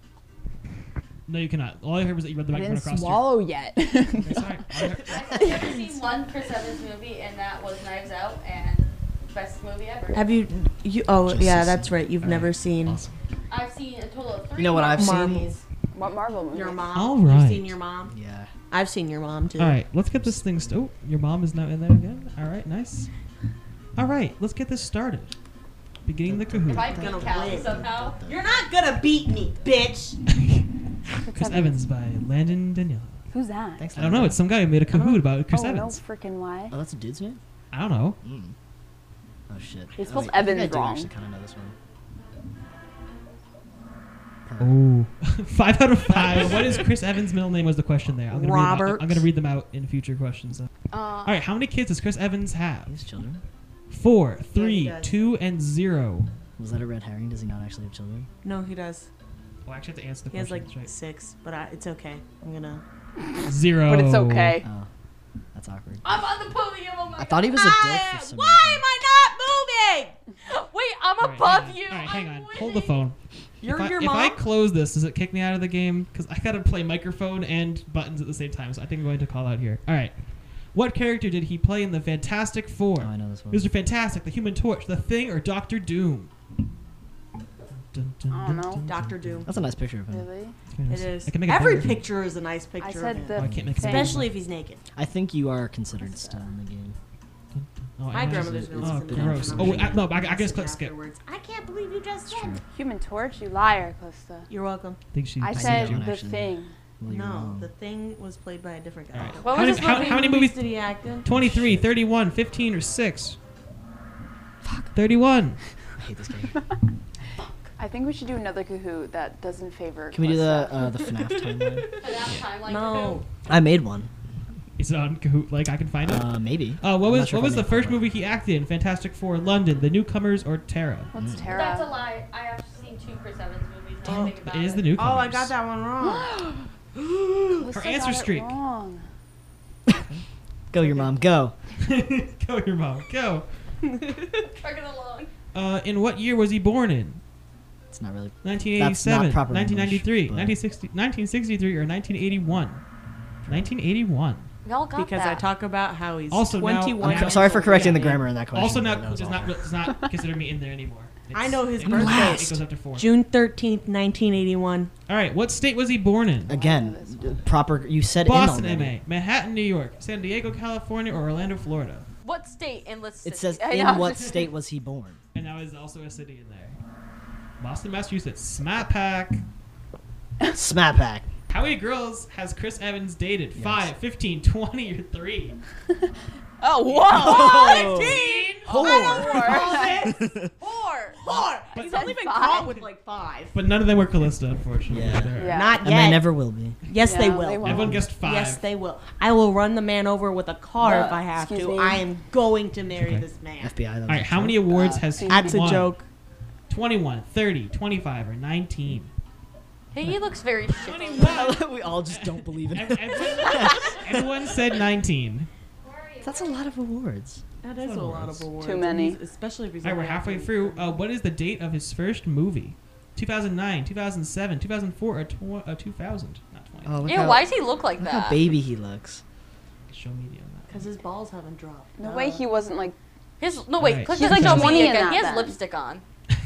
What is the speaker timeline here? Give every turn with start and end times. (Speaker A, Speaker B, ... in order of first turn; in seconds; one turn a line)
Speaker A: 1.3-3.4
Speaker B: 2.5-4.4
Speaker A: 4.2-5.5
Speaker C: 5.1-10.2
Speaker D: 10.1-13.0
Speaker E: 11.3-13.1
Speaker A: 12.2-13.1
Speaker C: 13.5-15.6
Speaker E: 14.6-15.5
Speaker D: 14.9-15.5
Speaker B: 15.9-16.9
Speaker D: 16.5-18.1
Speaker A: 16.9-17.8
Speaker E: 18.1-18.5
Speaker D: 18.7-19.8
Speaker A: 19.6-23.1
Speaker E: 20.2-20.8
Speaker A: 24.0-25.3
Speaker A: 26.1-26.9
Speaker E: 26.2-28.6
Speaker C: 26.7-28.2
Speaker D: 26.9-30.2
Speaker A: 30.3-30.7
Speaker A: 31.3-33.2
Speaker B: 31.3-31.8
Speaker B: 33.3-33.9
Speaker E: 33.8-34.4
Speaker A: 34.0-36.0
Speaker D: 34.9-35.2
Speaker B: 35.5-36.8
Speaker E: 36.7-37.4
Speaker A: 37.7-38.2
Speaker E: 38.2-38.5
Speaker E: 39.5-41.8
Speaker B: 40.0-41.1
Speaker E: 44.5-44.8
Speaker A: 44.6-50.7
Speaker D: 48.3-49.3
Speaker C: 50.9-51.4
Speaker A: 51.2-53.0
Speaker E: 52.9-53.4
Speaker A: 53.9-56.3
Speaker D: 54.5-55.2
Speaker E: 56.6-58.3
Speaker D: 58.4-59.1
Speaker A: 59.6-60.9
Speaker D: 60.3-62.8
Speaker B: 63.3-64.7
Speaker A: 63.4-64.6
Speaker E: 64.6-64.9
Speaker E: 65.5-66.3
Speaker C: 66.0-67.6
Speaker E: 67.2-68.8
Speaker D: 67.5-70.2
Speaker C: 70.4-73.1
Speaker A: 71.2-86.3
Speaker D: 73.6-74.4
Speaker E: 83.0-83.7
Speaker A: 87.9-89.5
Speaker B: 88.3-88.9
Speaker D: 88.8-89.5
Speaker E: 89.5-90.3
Speaker B: 90.1-90.6
Speaker A: 90.8-92.1
Speaker D: 90.9-94.8
Speaker B: 92.8-94.2
Speaker A: 93.3-94.4
Speaker E: 93.5-93.7
Speaker E: 95.0-97.0
Speaker B: 96.0-96.5
Speaker A: 97.5-101.0
Speaker D: 98.1-102.6
Speaker E: 98.2-100.1
Speaker E: 102.3-102.6
Speaker B: 102.7-104.5
Speaker D: 104.5-105.0
Speaker A: 105.1-106.1
Speaker B: 105.4-106.7
Speaker E: 105.5-107.7
Speaker D: 107.1-111.3
Speaker A: 109.1-113.4
Speaker C: 109.4-110.2
Speaker E: 111.3-111.9
Speaker A: 114.9-115.6
Speaker E: 116.0-116.6
Speaker C: 117.4-117.7
Speaker B: 117.8-121.0
Speaker E: 120.1-121.9
Speaker D: 121.0-122.0
Speaker C: 122.0-123.2
Speaker D: 122.6-123.3
Speaker E: 123.5-124.1
Speaker A: 124.8-131.1
Speaker E: 126.1-128.1
Speaker B: 131.1-131.9
Speaker E: 131.1-131.5
Speaker C: 131.5-134.9
Speaker D: 134.1-134.4
Speaker A: 134.1-135.6
Speaker D: 134.9-136.3
Speaker B: 136.0-136.7
Speaker B: 137.6-139.1
Speaker A: 137.7-138.5
Speaker E: 140.7-141.6
Speaker A: 141.8-143.5
Speaker D: 143.8-144.5
Speaker C: 144.4-145.3
Speaker A: 145.5-147.2
Speaker E: 147.9-150.6
Speaker A: 148.4-152.8
Speaker A: 153.5-154.5
Speaker C: 154.6-155.5
Speaker D: 154.9-158.3
Speaker A: 156.3-163.2
Speaker E: 157.0-159.7
Speaker D: 161.3-164.9
Speaker E: 161.8-162.6
Speaker A: 165.1-166.5
Speaker E: 166.5-169.0
Speaker B: 166.5-167.5
Speaker A: 168.2-172.1
Speaker C: 172.2-173.6
Speaker E: 173.2-175.2
Speaker B: 173.6-174.5
Speaker A: 175.3-176.8
Speaker A: 177.6-179.4
Speaker E: 180.5-181.3
Speaker A: 181.5-185.6
Speaker E: 183.6-183.9
Speaker B: 186.6-187.9
Speaker A: 186.9-189.7
Speaker E: 187.1-188.2
Speaker D: 187.3-190.3
Speaker B: 188.6-190.0
Speaker E: 188.9-189.2
Speaker C: 189.1-189.9
Speaker E: 190.1-190.5
Speaker C: 190.6-191.2
Speaker D: 191.2-193.6
Speaker A: 191.3-192.2
Speaker B: 191.8-192.8
Speaker A: 193.5-195.7
Speaker E: 194.9-196.8
Speaker B: 195.4-195.8
Speaker D: 195.4-203.8
Speaker B: 197.0-198.0
Speaker A: 197.6-198.7
Speaker B: 200.8-202.1
Speaker A: 202.9-203.3
Speaker E: 203.6-205.0
Speaker A: 204.1-205.9
Speaker B: 205.0-205.9
Speaker D: 205.2-206.1
Speaker A: 206.7-209.1
Speaker C: 209.9-211.6
Speaker A: 210.7-215.5
Speaker E: 211.2-214.3
Speaker C: 215.8-216.7
Speaker E: 216.2-217.4
Speaker D: 217.6-221.0
Speaker A: 217.8-218.5
Speaker B: 218.6-219.2
Speaker A: 219.8-227.2
Speaker E: 226.8-229.2
Speaker C: 227.1-228.5
Speaker A: 229.8-230.9
Speaker D: 230.7-232.4
Speaker B: 232.0-233.0
Speaker C: 233.4-236.0
Speaker A: 233.8-235.0
Speaker B: 234.1-235.6